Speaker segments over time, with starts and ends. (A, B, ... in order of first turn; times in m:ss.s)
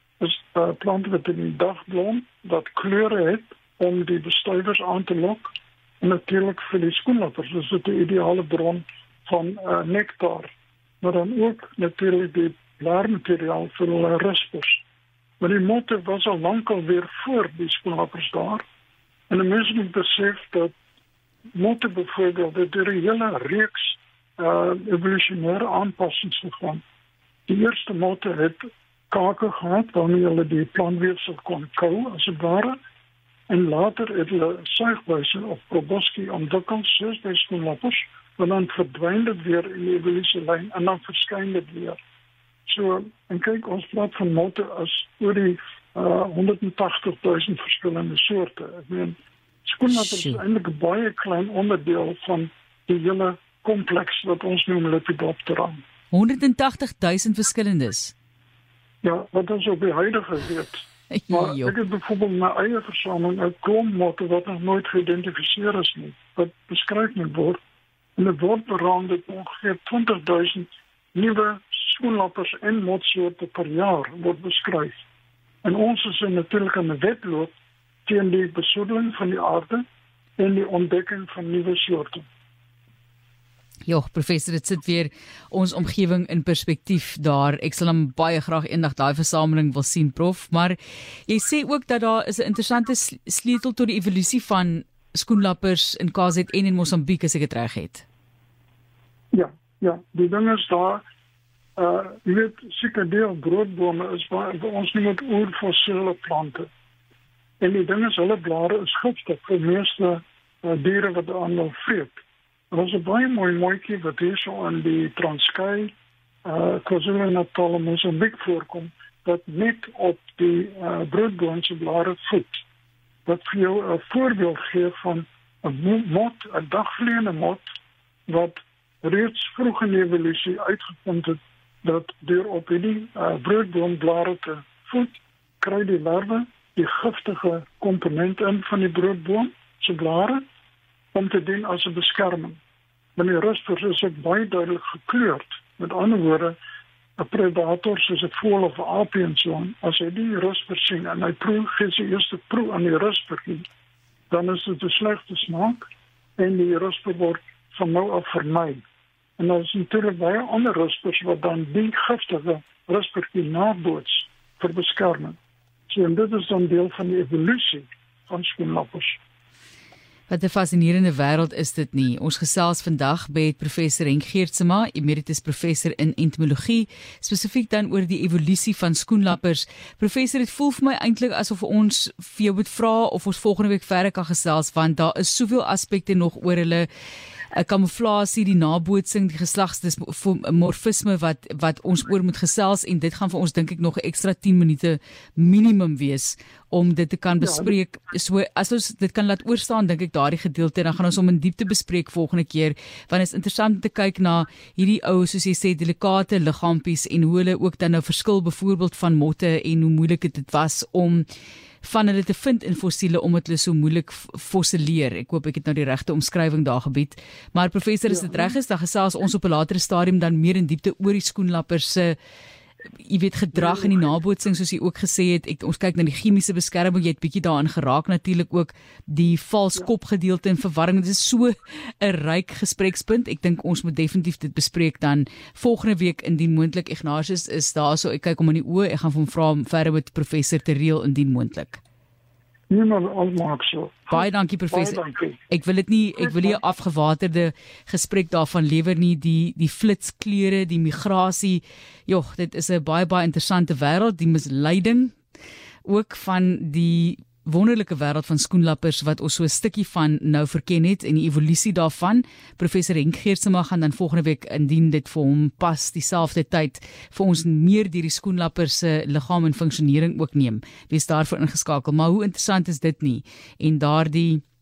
0:00.2-0:14.8 A
0:15.4-0:18.6 A
0:19.3-0:20.7 A
0:21.5-0:26.8 A
0:27.5-0:32.8 A
0:33.5-0:42.0 A
0:42.7-0:55.8 A
0:49.9-0:50.4 B
0:56.1-0:58.1 B
0:59.0-1:07.6 A
1:01.1-1:01.7 B
1:08.2-1:15.0 A
1:15.6-1:17.5 A
1:18.1-1:19.8 A
1:20.4-1:22.3 A
1:23.9-1:38.1 B
1:39.3-1:41.0 A
1:41.8-1:46.7 A
1:47.6-1:52.2 A
1:52.7-2:02.6 A
2:03.3-2:07.7 A
2:08.3-2:20.4 A
2:21.1-2:22.6 A
2:23.2-2:26.6 A
2:27.2-2:33.7 A
2:34.3-2:35.8 A
2:36.4-2:38.8 A
2:39.4-2:49.2 A
2:50.3-3:06.9 B
3:07.5-3:31.3 B
3:17.4-3:17.7 A
3:31.8-3:42.2 B
3:38.1-3:38.5 A
3:43.0-4:01.8 B
3:43.6-3:44.0 A
4:02.7-4:05.4 A
4:04.1-4:15.2 B
4:06.2-4:06.6 A
4:15.8-4:34.4 B